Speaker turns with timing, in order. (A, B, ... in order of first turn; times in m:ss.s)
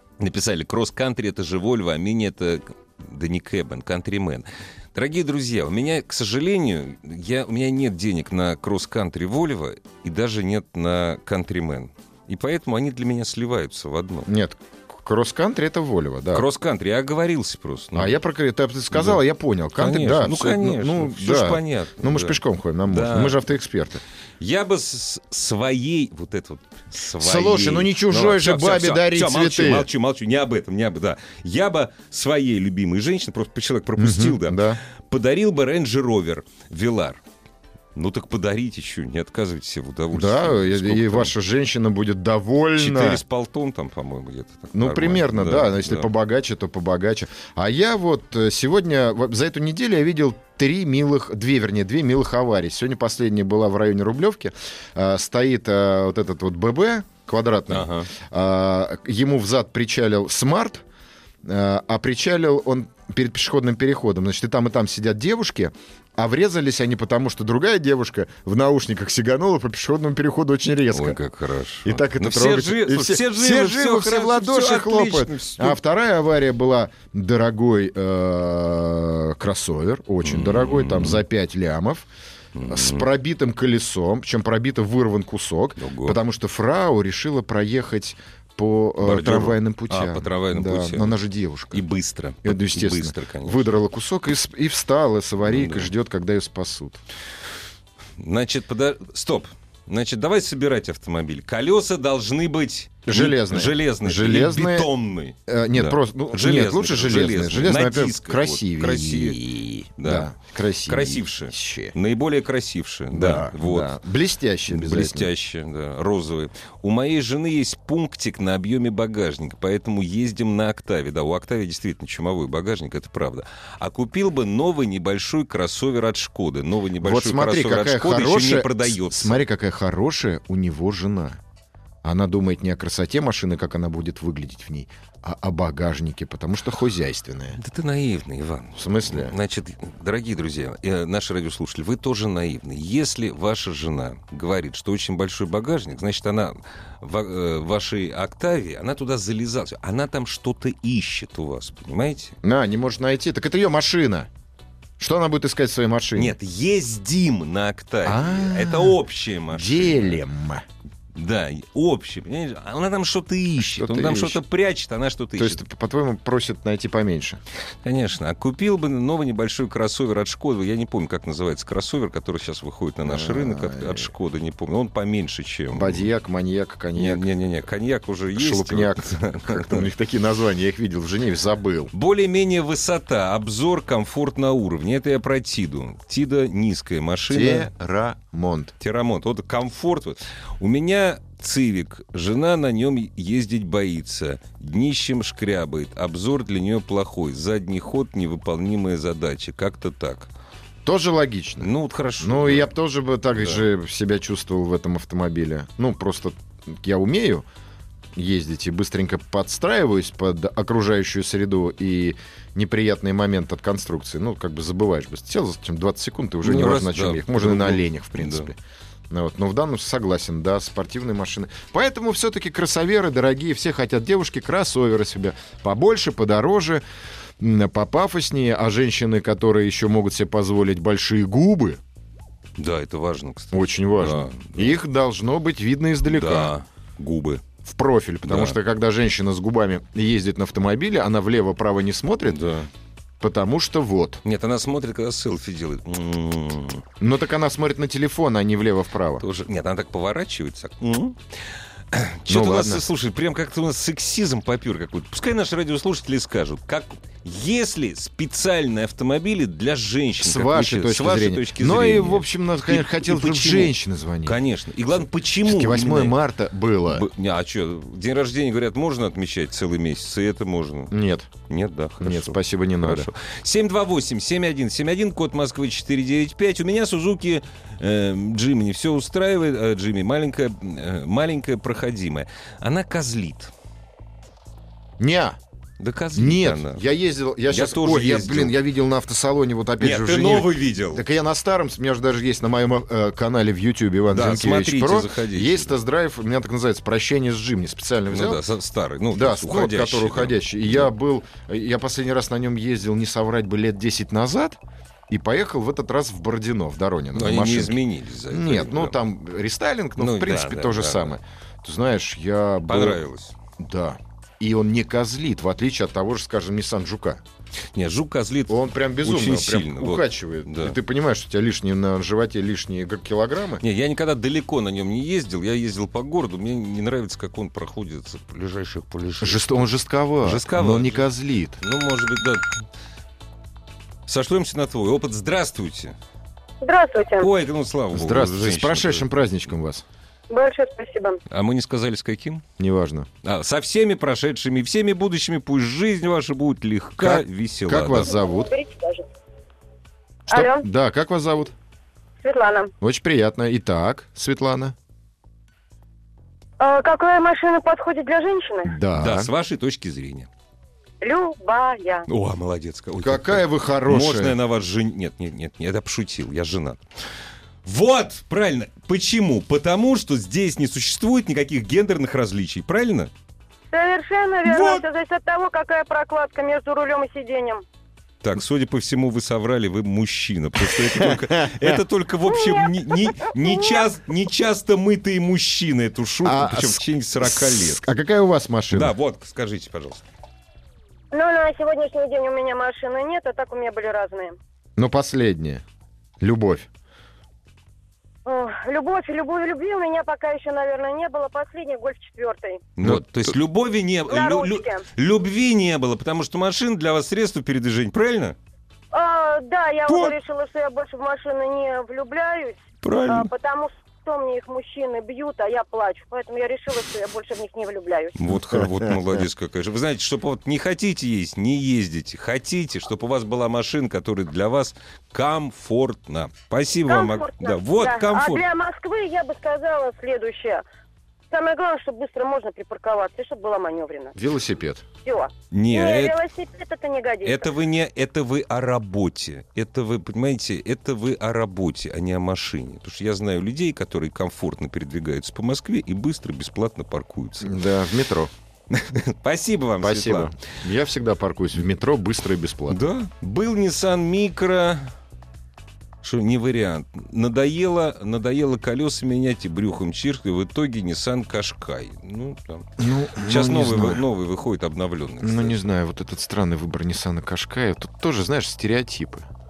0:00.2-0:14.3 A
0:14.3-0:16.4 B
0:16.3-0:18.2 A
0:17.9-0:24.0 B
0:18.9-0:19.2 A
0:19.8-0:23.4 A
0:24.4-0:37.2 A
0:27.2-0:29.9 B
0:34.0-0:34.8 B
0:37.9-0:41.3 A
0:40.1-0:43.2 B
0:42.8-0:46.1 A
0:44.7-1:00.8 B
0:57.7-0:58.1 A
1:01.4-1:11.2 B
1:10.9-1:15.8 A
1:11.8-1:22.0 B
1:20.2-1:21.2 A
1:22.5-1:23.1 A
1:22.7-1:31.8 B
1:25.8-1:26.2 A
1:29.0-1:31.2 A
1:31.7-1:33.6 A
1:32.4-1:37.0 B
1:35.4-1:35.9 A
1:38.2-1:50.3 A
1:43.0-1:44.9 B
1:45.5-1:51.9 B
1:50.8-1:54.0 A
1:53.1-1:55.3 B
1:54.7-2:09.4 A
2:07.0-2:11.4 B
2:12.0-2:17.6 B
2:17.6-2:32.4 A
2:18.7-2:19.3 B
2:32.4-2:34.3 B
2:35.0-2:36.4 B
2:36.2-2:40.2 A
2:38.0-2:39.0 B
2:39.5-2:40.6 B
2:41.1-2:45.6 A
2:43.6-2:44.4 B
2:45.4-2:47.4 B
2:47.8-2:56.1 A
2:53.0-2:54.1 B
2:55.7-2:57.2 B
2:57.0-2:59.9 A
2:58.3-3:01.9 B
3:01.9-3:07.7 A
3:07.3-3:08.7 B
3:08.8-3:20.3 A
3:20.8-3:27.4 B
3:21.6-3:22.7 A
3:28.1-3:38.6 B
3:36.4-3:38.5 A
3:39.1-3:46.8 B
3:47.4-3:51.8 B
3:52.6-3:54.8 A
3:53.5-3:56.5 B
3:56.1-3:57.4 A
3:57.6-4:02.4 B
3:58.2-3:58.6 A
4:02.2-4:02.7 A
4:03.2-4:04.2 B
4:04.2-4:06.8 A
4:07.0-4:09.2 B
4:09.2-4:11.2 A
4:11.9-4:26.2 A
4:12.3-4:12.8 B
4:20.2-4:24.4 B
4:25.4-4:27.1 B
4:26.9-4:30.9 A
4:30.9-4:31.3 B
4:31.5-4:43.5 A
4:32.0-4:33.1 B
4:45.0-4:45.4 B
4:45.8-4:46.8 A
4:46.1-4:58.4 B
4:47.5-4:48.5 A
4:49.8-4:51.0 A
4:54.1-4:55.8 A
4:58.1-5:00.9 A
4:59.1-5:13.0 B
5:07.1-5:09.0 A
5:10.0-5:11.1 A
5:12.7-5:13.3 A
5:13.6-5:17.2 B
5:17.7-5:20.8 A
5:18.5-5:23.6 B
5:23.6-5:29.5 A
5:29.2-5:31.6 B
5:30.2-5:31.1 A
5:31.6-5:32.5 A
5:34.1-5:35.9 A
5:36.6-5:37.3 C
5:37.2-5:39.1 A
5:37.9-5:39.8 B
5:40.3-5:41.2 C
5:41.3-5:42.4 A
5:42.6-5:43.1 B
5:43.2-5:48.1 A
5:47.0-5:48.5 B
5:48.1-5:49.0 C
5:50.3-5:51.5 B
5:50.3-5:50.6 C
5:52.2-5:52.7 C
5:52.8-5:54.7 B
5:56.6-5:58.7 C
5:58.6-5:59.3 B
5:58.9-6:00.3 A
6:01.0-6:02.0 C
6:02.1-6:06.8 A
6:03.0-6:04.4 B
6:07.6-6:13.1 A
6:13.7-6:17.6 C
6:14.4-6:14.8 A
6:18.2-6:27.8 A
6:20.6-6:21.8 B
6:22.3-6:23.8 C
6:26.2-6:28.9 B
6:28.7-6:30.0 A
6:31.1-6:34.4 C
6:34.8-6:35.6 B
6:36.2-6:36.7 B
6:38.2-6:42.6 C
6:42.8-6:48.4 A
6:42.8-6:43.3 B
6:44.1-6:44.8 C
6:48.9-6:58.2 C
6:49.9-6:50.2 A
6:52.8-6:53.3 A
6:58.2-7:08.4 A
7:06.9-7:10.6 C
7:11.3-7:14.2 C
7:14.2-7:14.8 B
7:15.0-7:17.5 C
7:15.5-7:16.2 A
7:17.2-7:27.6 A
7:27.4-7:28.3 B
7:28.7-7:30.3 A
7:29.8-7:32.8 B
7:32.7-7:34.9 A
7:36.0-7:45.6 A
7:42.8-7:44.0 B
7:45.2-7:49.3 B